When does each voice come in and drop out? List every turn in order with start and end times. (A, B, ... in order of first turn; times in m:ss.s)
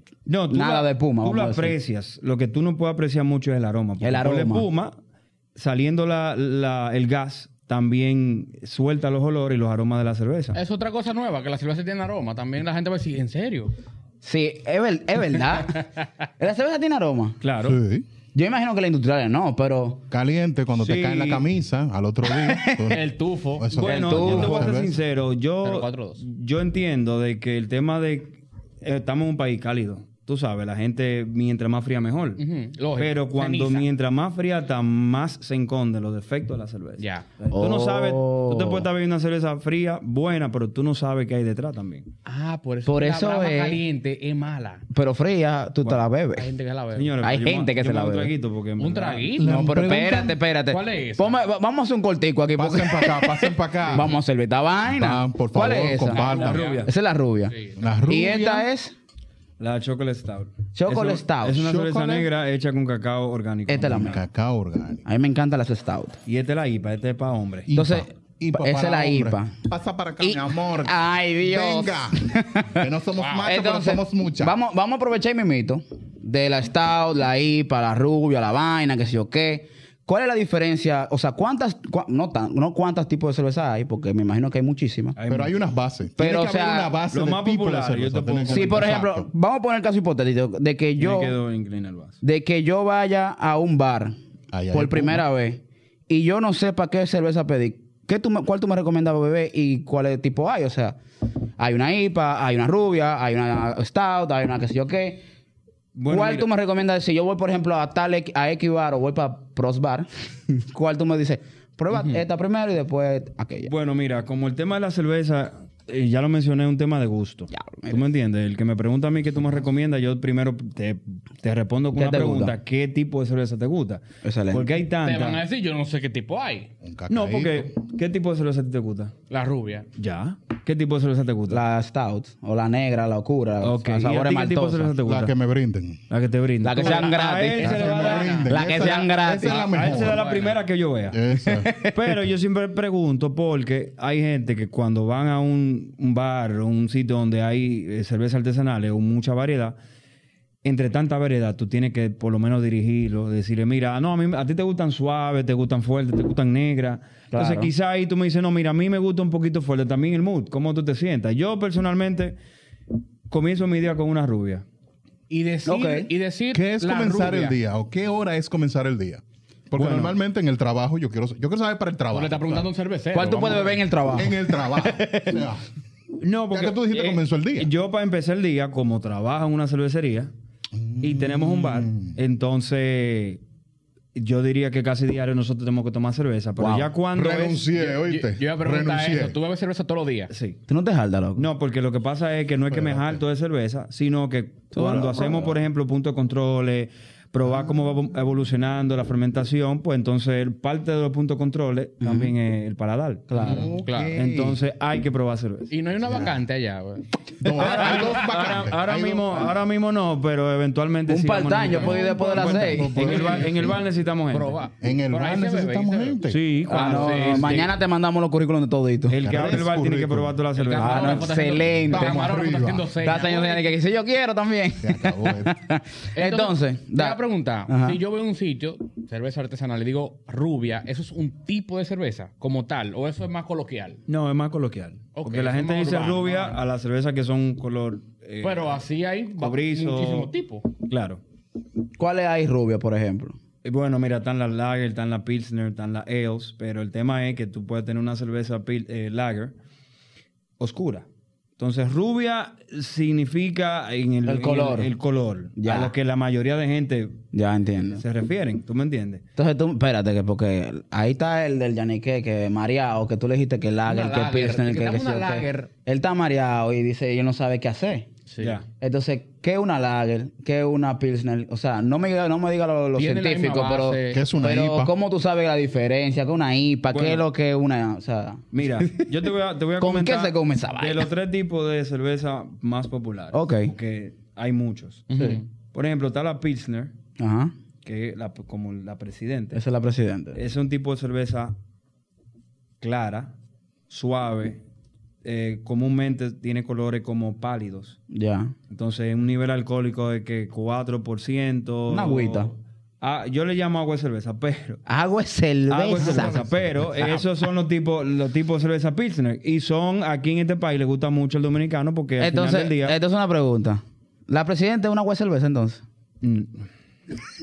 0:00.2-0:05.0 A
0:00.5-0:01.7 B
0:04.0-0:04.7 B
0:05.6-0:10.6 A
0:10.5-0:13.7 C
0:14.2-0:15.8 B
0:16.4-0:17.4 B
0:17.4-0:17.8 A
0:17.6-0:18.0 D
0:18.3-0:20.0 B
0:20.1-0:23.0 D
0:20.8-0:21.4 A
0:22.2-0:23.0 B
0:22.9-0:23.8 C
0:23.6-0:25.0 D
0:23.7-0:32.4 A
0:23.8-0:24.8 B
0:25.6-0:26.2 C
0:32.4-0:33.8 C
0:33.0-0:42.1 A
0:37.0-0:37.3 C
0:37.5-0:38.9 B
0:42.2-0:44.8 C
0:42.8-0:43.8 B
0:44.9-0:46.5 B
0:46.4-0:47.2 C
0:46.9-0:49.3 A
0:47.2-0:48.3 B
0:48.8-0:49.5 C
0:49.4-0:50.4 D
0:49.4-0:57.5 B
0:50.7-0:51.4 C
0:52.5-0:54.1 D
0:54.8-0:56.6 D
0:56.0-0:56.9 C
0:56.2-0:56.9 A
0:57.5-0:57.8 C
0:57.8-0:58.7 D
0:58.0-0:58.9 B
0:59.6-1:04.2 A
1:00.7-1:01.6 B
1:01.6-1:02.3 D
1:03.7-1:04.2 B
1:03.9-1:05.0 D
1:05.0-1:06.2 B
1:06.2-1:07.7 A
1:07.6-1:12.2 D
1:07.7-1:09.6 B
1:10.2-1:12.8 B
1:12.7-1:14.5 D
1:13.2-1:13.5 C
1:13.4-1:25.2 B
1:25.2-1:25.6 A
1:25.3-1:29.2 D
1:26.2-1:27.0 B
1:27.1-1:29.0 A
1:28.5-1:31.3 B
1:31.0-1:32.2 A
1:32.2-1:34.2 B
1:34.5-1:35.2 D
1:34.7-1:41.0 B
1:41.6-1:45.2 B
1:45.9-1:46.4 A
1:46.1-1:53.7 B
1:51.9-1:52.2 C
1:53.6-2:05.4 A
1:57.5-1:58.0 B
2:01.9-2:02.6 B
2:04.2-2:04.7 B
2:05.0-2:06.7 C
2:06.8-2:07.7 D
2:07.1-2:09.1 A
2:09.3-2:09.9 C
2:10.0-2:11.6 A
2:11.5-2:14.9 B
2:13.6-2:15.3 A
2:15.0-2:16.0 D
2:16.1-2:18.9 A
2:16.6-2:19.7 B
2:16.8-2:18.5 C
2:17.6-2:20.2 D
2:19.4-2:20.6 C
2:19.5-2:29.8 A
2:21.1-2:21.7 D
2:21.4-2:22.2 B
2:30.6-2:42.4 A
2:37.3-2:37.7 B
2:43.3-2:44.6 A
2:45.3-2:47.6 C
2:45.6-2:46.1 B
2:46.5-2:52.7 D
2:49.8-2:50.1 A
2:52.1-2:53.9 C
2:53.1-2:55.5 B
2:54.1-2:55.6 D
2:56.2-3:00.3 A
2:56.5-2:57.7 D
3:00.8-3:02.1 D
3:01.0-3:03.4 A
3:04.1-3:07.6 A
3:06.6-3:06.9 B
3:07.1-3:09.4 D
3:07.7-3:10.3 C
3:10.3-3:10.6 A
3:10.7-3:11.5 B
3:11.4-3:23.6 A
3:12.7-3:13.2 D
3:14.7-3:15.6 B
3:22.0-3:22.3 B
3:23.3-3:23.7 B
3:23.4-3:24.6 D
3:23.4-3:24.1 C
3:24.1-3:25.7 A
3:25.7-3:27.0 C
3:27.4-3:29.5 D
3:27.5-3:34.6 A
3:27.6-3:28.0 C
3:31.1-3:33.2 B
3:31.7-3:33.8 D
3:33.0-3:33.8 C
3:34.3-3:37.7 C
3:34.8-3:36.4 D
3:36.3-3:37.8 A
3:36.6-3:39.2 B
3:39.1-3:41.3 A
3:39.2-3:40.3 D
3:40.5-3:43.7 C
3:40.7-3:42.4 B
3:41.9-3:42.9 D
3:43.0-3:48.0 B
3:44.8-3:45.5 D
3:46.1-3:54.0 C
3:54.1-3:58.8 A
3:55.1-3:56.6 C
3:58.4-4:00.7 C
3:59.4-4:01.2 A
4:02.0-4:03.4 B
4:03.6-4:09.5 A
4:10.6-4:11.0 A
4:11.6-4:17.2 A
4:14.2-4:14.9 B
4:15.6-4:15.9 B
4:17.3-4:18.0 B
4:18.0-4:19.2 A
4:19.4-4:28.1 B
4:23.8-4:25.7 C
4:28.3-4:28.6 C
4:28.4-4:28.6 A
4:28.8-4:39.1 B
4:33.0-4:34.2 C
4:34.1-4:34.9 D
4:36.9-4:37.2 A
4:38.5-4:46.9 A
4:39.8-4:41.1 B
4:43.3-4:43.7 B
4:45.1-4:45.4 C
4:47.2-4:47.5 B
4:47.8-4:49.6 A
4:49.5-4:50.4 B
4:50.3-4:51.5 A
4:52.8-4:53.3 A
4:53.9-4:54.6 A
4:55.2-4:58.0 A
4:58.1-4:58.5 B
4:58.7-5:04.8 A
5:01.9-5:02.5 B
5:04.8-5:06.4 B
5:05.7-5:13.0 A
5:06.0-5:06.9 D
5:07.0-5:07.2 B
5:12.2-5:15.8 B
5:16.2-5:16.7 A